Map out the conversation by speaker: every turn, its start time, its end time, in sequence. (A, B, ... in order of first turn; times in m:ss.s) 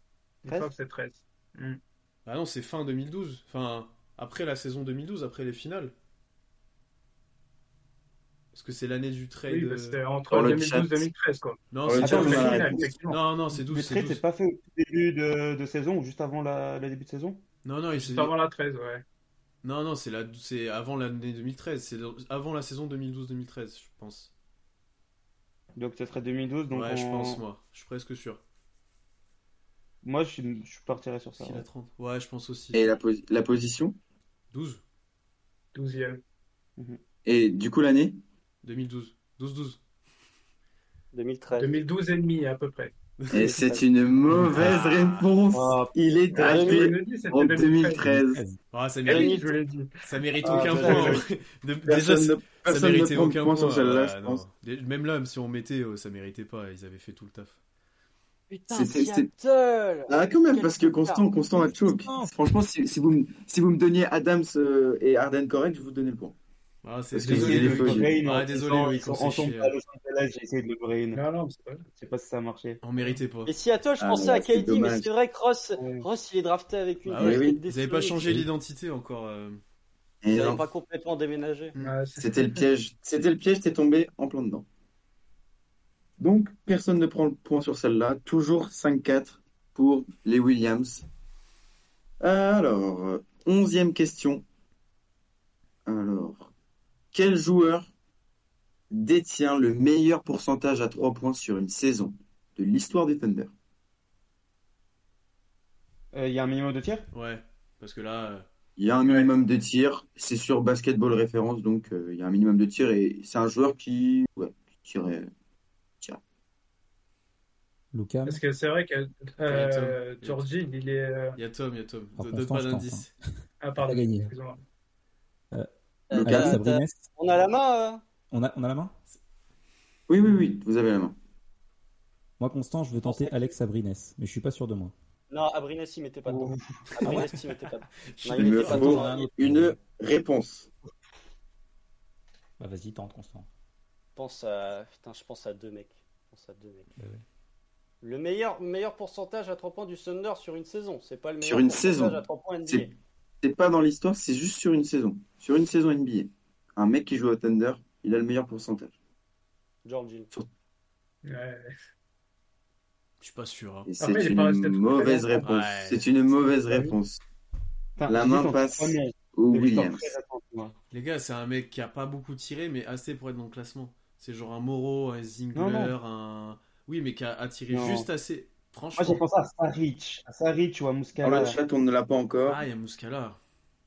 0:00.4-0:01.8 A
0:00.4-0:00.7 B
0:02.2-0:05.9 C
0:08.5-0:10.0 C
0:09.5-0:13.2 A
0:10.3-0:11.1 D
0:11.7-0:14.2 C
0:11.8-0:12.9 D
0:12.0-0:12.9 B
0:13.5-0:17.4 B
0:17.6-0:18.3 C
0:17.9-0:19.0 A
0:19.6-0:24.3 C
0:25.8-0:27.4 B
0:26.7-0:28.4 C
0:30.0-0:31.6 B
0:31.4-0:32.9 C
0:32.7-0:34.0 D
0:34.5-0:34.8 C
0:35.7-0:36.2 A
0:37.2-0:38.2 D
0:38.6-0:39.8 C
0:41.1-0:41.8 E
0:41.5-0:42.9 A
0:43.2-0:43.6 C
0:43.3-0:48.4 D
0:43.3-0:43.9 E
0:44.3-0:45.3 C
0:45.5-0:45.9 B
0:46.4-0:46.9 E
0:46.4-0:48.1 A
0:48.0-0:48.6 F
0:48.7-0:49.4 C
0:49.0-0:50.0 A
0:49.1-0:49.5 E
0:50.0-0:57.6 C
0:50.4-0:51.2 B
0:50.5-0:51.1 E
0:50.7-0:51.1 D
0:51.8-0:54.4 D
0:58.5-1:01.3 E
0:58.7-0:59.3 D
1:00.1-1:06.3 D
1:01.5-1:02.3 F
1:06.8-1:09.7 C
1:07.1-1:08.2 D
1:07.2-1:11.2 B
1:11.1-1:11.8 A
1:11.9-1:12.8 B
1:12.8-1:13.5 C
1:13.4-1:18.4 E
1:14.0-1:15.1 D
1:15.8-1:16.0 B
1:17.0-1:19.6 C
1:17.2-1:17.6 D
1:20.2-1:20.6 D
1:20.3-1:21.8 E
1:21.8-1:22.7 A
1:22.2-1:24.6 D
1:26.2-1:31.0 D
1:32.2-1:34.4 D
1:35.8-1:36.5 D
1:37.1-1:37.9 D
1:38.9-1:43.5 D
1:46.1-1:47.1 B
1:47.1-1:48.5 C
1:48.8-1:55.3 D
1:57.9-1:58.4 F
1:58.2-2:01.4 A
1:59.5-2:00.4 C
2:01.4-2:03.1 C
2:02.2-2:03.1 F
2:03.6-2:04.6 A
2:03.8-2:04.3 F
2:05.5-2:07.1 F
2:06.1-2:08.0 E
2:06.1-2:06.6 D
2:08.3-2:08.9 F
2:10.1-2:11.1 D
2:12.4-2:14.9 F
2:13.0-2:13.5 E
2:15.3-2:19.3 E
2:16.3-2:16.9 B
2:17.0-2:17.3 F
2:17.1-2:17.4 C
2:18.1-2:18.9 C
2:18.4-2:19.8 F
2:18.4-2:20.7 D
2:22.6-2:23.5 F
2:24.2-2:26.9 E
2:27.0-2:27.2 F
2:28.0-2:32.9 E
2:31.4-2:32.9 D
2:33.4-2:38.9 D
2:39.8-2:40.3 E
2:41.2-2:41.7 A
2:43.2-2:43.9 C
2:43.9-2:47.2 D
2:44.0-2:45.5 A
2:45.4-2:46.0 C
2:48.0-2:50.7 B
2:48.1-2:50.1 D
2:50.9-2:59.2 C
2:55.5-2:55.9 B
2:57.7-2:58.1 B
2:59.0-3:01.6 B
3:01.2-3:02.6 D
3:02.4-3:03.4 C